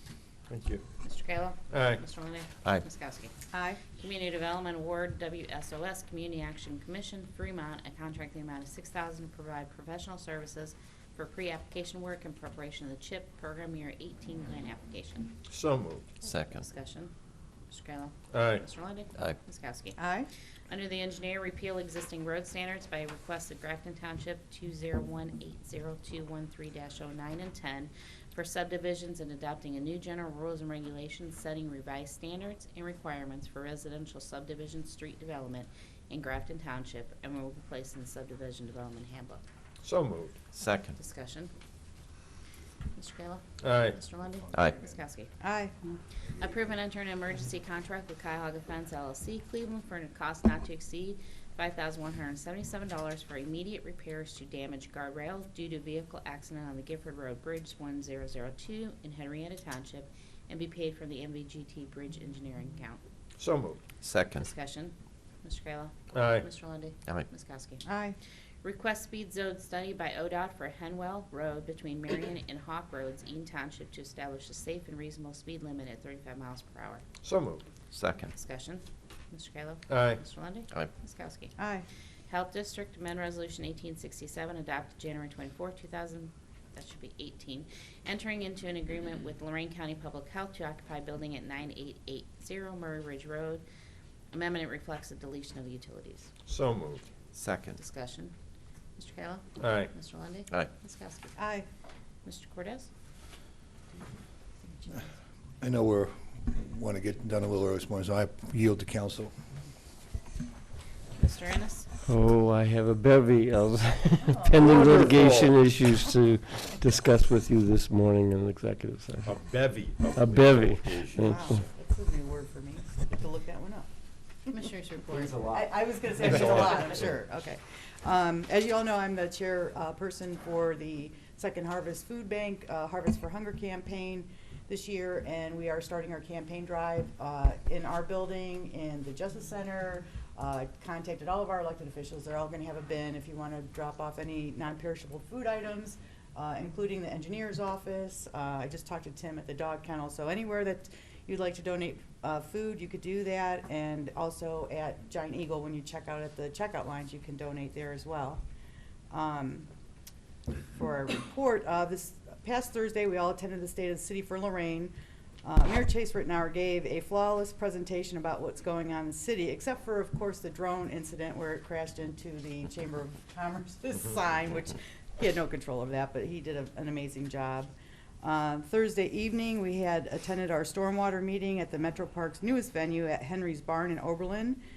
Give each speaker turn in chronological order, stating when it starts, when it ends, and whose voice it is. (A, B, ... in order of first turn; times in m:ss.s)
0:00.5-0:00.8 A
0:01.0-0:03.3 B
0:01.7-0:02.0 A
0:03.5-0:03.8 C
0:03.9-0:15.3 B
0:15.5-0:16.1 A
0:16.2-0:16.6 D
0:16.3-0:17.1 B
0:17.7-0:20.0 B
0:18.3-0:18.6 A
0:20.0-0:20.3 C
0:20.7-0:39.4 B
0:39.8-0:40.4 A
0:40.5-0:41.0 D
0:41.0-0:41.5 B
0:42.9-0:45.3 B
0:43.6-0:44.0 A
0:45.4-0:46.0 C
0:46.4-1:03.0 B
1:03.4-1:03.8 A
1:04.0-1:04.5 D
1:04.4-1:07.8 B
1:06.1-1:06.5 A
1:07.8-1:08.2 C
1:08.6-1:17.0 B
1:17.2-1:17.6 A
1:17.9-1:18.3 D
1:18.3-1:21.6 B
1:19.9-1:20.2 A
1:21.6-1:21.9 C
1:22.3-1:33.6 B
1:34.3-1:36.3 B
1:36.5-1:37.1 A
1:37.3-1:37.8 D
1:37.7-1:38.3 B
1:39.0-1:41.4 B
1:39.6-1:39.9 A
1:41.4-1:41.6 C
1:42.2-1:42.9 B
1:45.6-1:49.3 E
1:51.2-1:51.9 B
1:52.0-1:59.4 F
1:54.3-1:54.7 C
1:54.6-1:55.6 A
1:59.2-2:01.4 A
2:00.1-2:01.6 F
2:01.2-2:03.9 C
2:04.5-2:05.4 B
2:05.2-2:05.6 A
2:05.3-2:38.4 C
2:06.2-2:06.7 A
2:39.1-2:39.7 C
2:40.7-3:04.6 C